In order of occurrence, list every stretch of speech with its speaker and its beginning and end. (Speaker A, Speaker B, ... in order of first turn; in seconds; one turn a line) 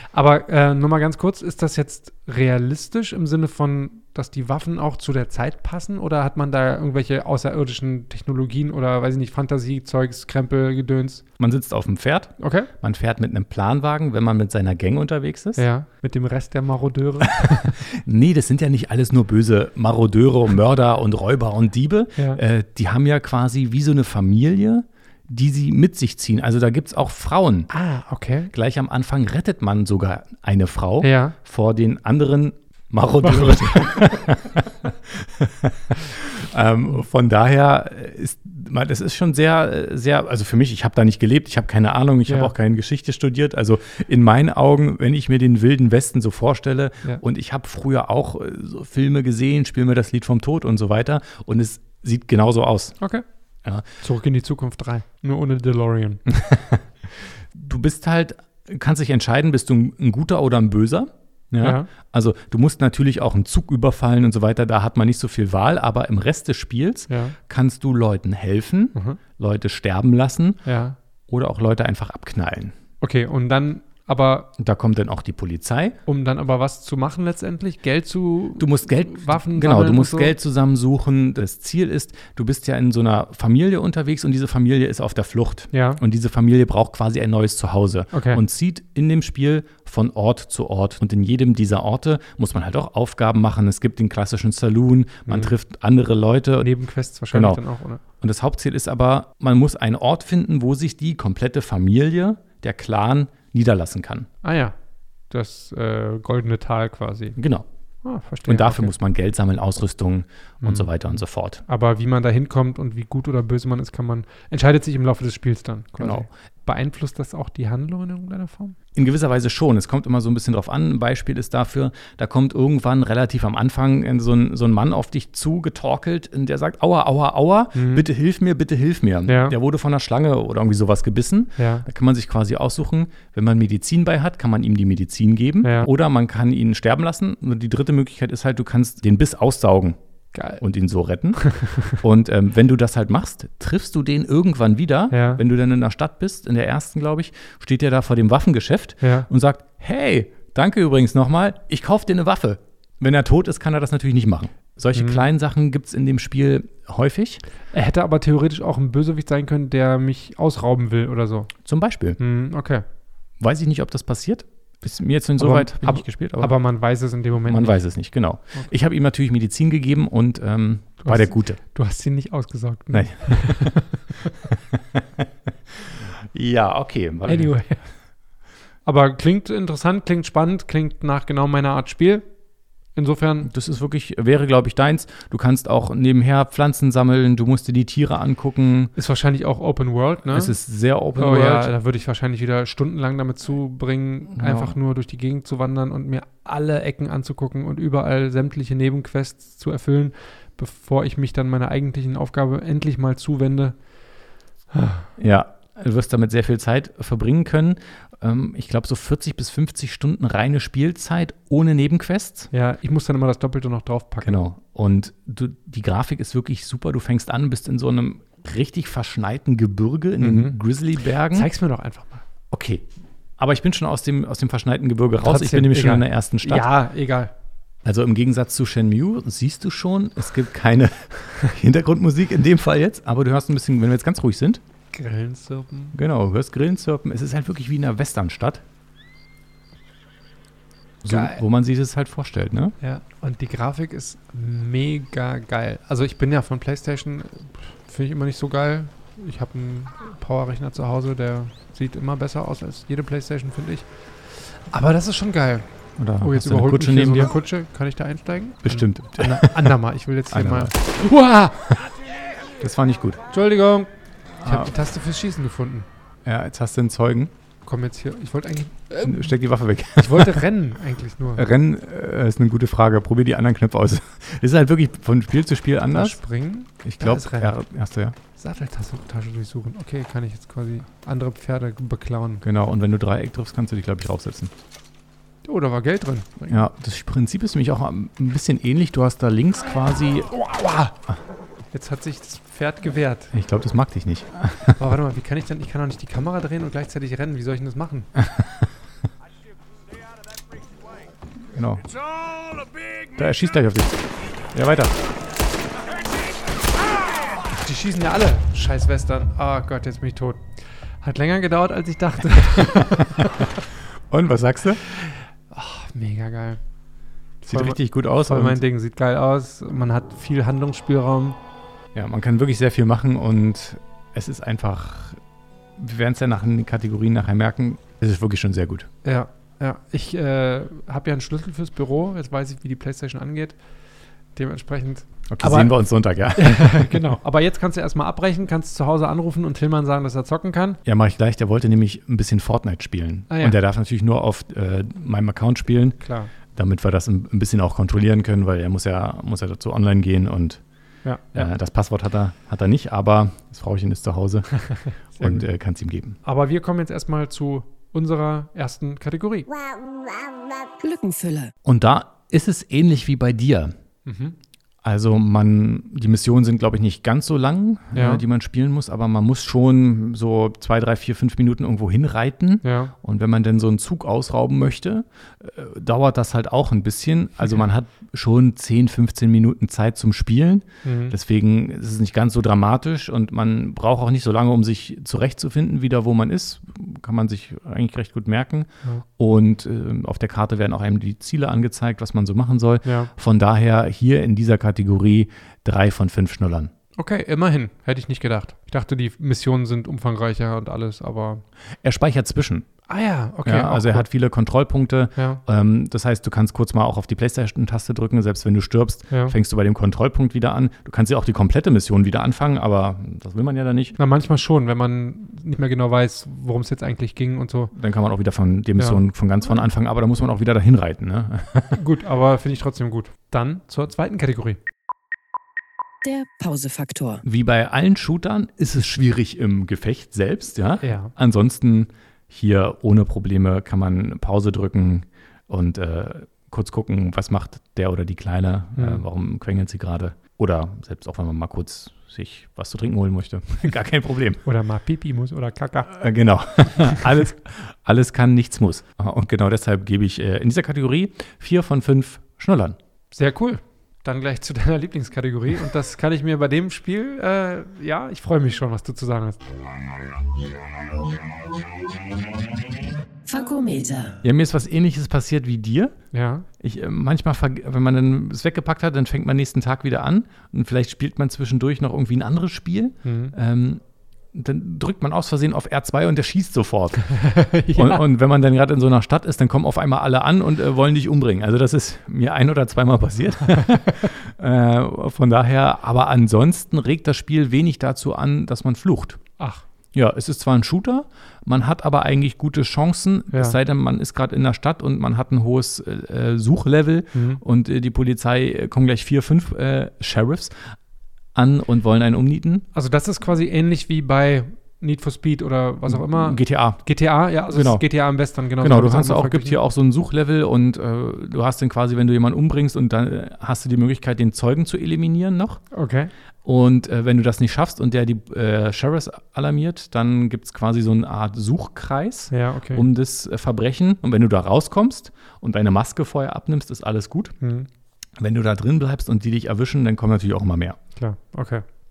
Speaker A: 0.1-11.2
Speaker B: 11.4-15.7
Speaker A: 12.4-12.7
Speaker A: 15.6-17.8
Speaker B: 17.4-27.7
Speaker A: 27.7-28.5
Speaker B: 28.5-53.0
Speaker A: 31.0-31.4
Speaker A: 33.2-34.0
Speaker A: 42.3-42.5
Speaker A: 54.0-56.2
Speaker B: 56.3-56.9
Speaker B: 57.5-70.6
Speaker A: 61.6-61.9
Speaker A: 67.1-67.4
Speaker A: 69.0-69.2
Speaker A: 70.7-71.0
Speaker B: 71.3-72.8
Speaker A: 73.0-74.5
Speaker B: 74.6-76.0
Speaker A: 76.1-80.3
Speaker B: 78.6-96.7
Speaker A: 85.7-86.0
Speaker A: 88.1-88.4
Speaker A: 95.3-95.5
Speaker A: 96.6-98.0
Speaker B: 97.3-97.6
Speaker B: 98.2-104.3
Speaker A: 104.4-104.8
Speaker A: 105.3-107.4
Speaker B: 107.4-107.7
Speaker A: 108.0-108.9
Speaker B: 108.5-111.6
Speaker A: 110.6-110.9
Speaker A: 111.7-118.8
Speaker B: 116.0-116.3
Speaker B: 119.0-140.0
Speaker A: 127.8-128.1
Speaker A: 129.3-129.6
Speaker A: 131.6-131.9
Speaker A: 135.6-135.9
Speaker A: 140.3-140.6
Speaker B: 140.6-157.4
Speaker A: 141.4-142.0
Speaker A: 145.1-145.4
Speaker A: 149.0-149.3
Speaker A: 154.9-155.2
Speaker A: 157.7-161.5
Speaker B: 161.7-162.2
Speaker A: 162.2-162.8
Speaker B: 163.4-166.5
Speaker A: 165.4-167.8
Speaker B: 167.5-171.6
Speaker A: 171.0-174.3
Speaker B: 172.9-173.8
Speaker B: 174.5-175.3
Speaker B: 175.8-177.6
Speaker A: 177.3-177.8
Speaker A: 178.8-182.3
Speaker A: 182.9-183.5
Speaker B: 183.5-188.9
Speaker A: 189.0-190.5
Speaker B: 190.3-191.7
Speaker A: 191.2-203.8
Speaker B: 194.4-194.8
Speaker A: 204.7-205.1
Speaker B: 205.2-212.5
Speaker A: 212.5-214.4
Speaker B: 214.2-221.5
Speaker A: 220.2-220.6
Speaker A: 221.3-222.2
Speaker B: 222.5-222.9
Speaker B: 223.4-226.7
Speaker A: 225.2-227.3
Speaker B: 227.8-234.6
Speaker A: 234.9-236.0
Speaker B: 235.9-238.6
Speaker B: 241.0-242.8
Speaker A: 241.1-241.4
Speaker A: 242.8-255.7
Speaker B: 256.0-257.4
Speaker A: 256.2-261.8
Speaker B: 258.6-259.8
Speaker B: 260.3-260.8
Speaker B: 262.6-263.2
Speaker A: 263.3-263.9
Speaker B: 264.4-264.7
Speaker A: 264.4-265.9
Speaker B: 266.2-267.3
Speaker A: 267.6-269.3
Speaker B: 269.0-270.4
Speaker A: 270.0-271.5
Speaker B: 271.4-276.2
Speaker A: 275.9-277.6
Speaker B: 276.8-278.2
Speaker A: 278.4-282.4
Speaker B: 282.4-284.6
Speaker A: 285.4-286.6
Speaker B: 286.5-290.3
Speaker A: 290.3-291.0
Speaker A: 291.7-293.3
Speaker B: 293.3-294.8
Speaker A: 294.8-298.1
Speaker B: 298.2-298.7
Speaker B: 301.5-301.9
Speaker B: 303.1-305.0
Speaker A: 307.5-310.5
Speaker A: 311.0-313.5
Speaker B: 312.5-313.4
Speaker B: 314.1-314.8
Speaker A: 314.9-316.6
Speaker A: 317.4-321.4
Speaker B: 317.4-318.6
Speaker B: 321.9-325.2
Speaker B: 325.8-328.9
Speaker A: 329.0-333.6
Speaker A: 334.4-335.8
Speaker B: 335.3-337.1
Speaker A: 336.3-340.8
Speaker B: 340.9-346.0
Speaker A: 343.3-343.6
Speaker A: 346.0-346.3
Speaker B: 346.5-350.6
Speaker A: 351.1-351.5
Speaker B: 351.3-354.5
Speaker A: 354.6-355.5
Speaker B: 355.2-356.2
Speaker A: 356.2-359.5
Speaker C: 360.8-361.5
Speaker B: 361.6-363.7
Speaker A: 364.1-364.4
Speaker B: 364.8-396.7
Speaker A: 367.9-368.2
Speaker A: 372.6-372.9
Speaker A: 380.8-381.2
Speaker A: 392.9-393.1
Speaker A: 397.0-401.4
Speaker B: 401.8-402.7
Speaker A: 402.9-404.1
Speaker B: 403.4-414.0
Speaker A: 409.1-409.4
Speaker A: 414.0-417.7
Speaker B: 417.7-421.8
Speaker A: 421.7-424.6
Speaker C: 426.0-427.2
Speaker B: 427.2-444.4
Speaker A: 430.8-431.1
Speaker A: 438.8-439.0
Speaker A: 444.4-445.9
Speaker B: 445.9-452.8
Speaker A: 453.1-459.4
Speaker C: 463.3-464.2
Speaker B: 464.2-465.9
Speaker A: 466.1-466.5
Speaker B: 466.6-473.8
Speaker A: 473.0-473.3
Speaker B: 474.3-477.1
Speaker A: 477.1-478.1
Speaker B: 477.8-489.2
Speaker A: 489.4-489.6
Speaker B: 489.9-500.8
Speaker A: 493.3-493.6
Speaker A: 497.1-497.4
Speaker B: 501.4-502.6
Speaker A: 502.7-509.6
Speaker B: 505.9-506.8
Speaker B: 507.5-507.9
Speaker B: 508.6-515.6
Speaker A: 515.7-516.1
Speaker B: 516.5-527.3
Speaker A: 522.3-522.9
Speaker A: 527.4-527.7
Speaker B: 528.2-530.8
Speaker A: 531.0-531.6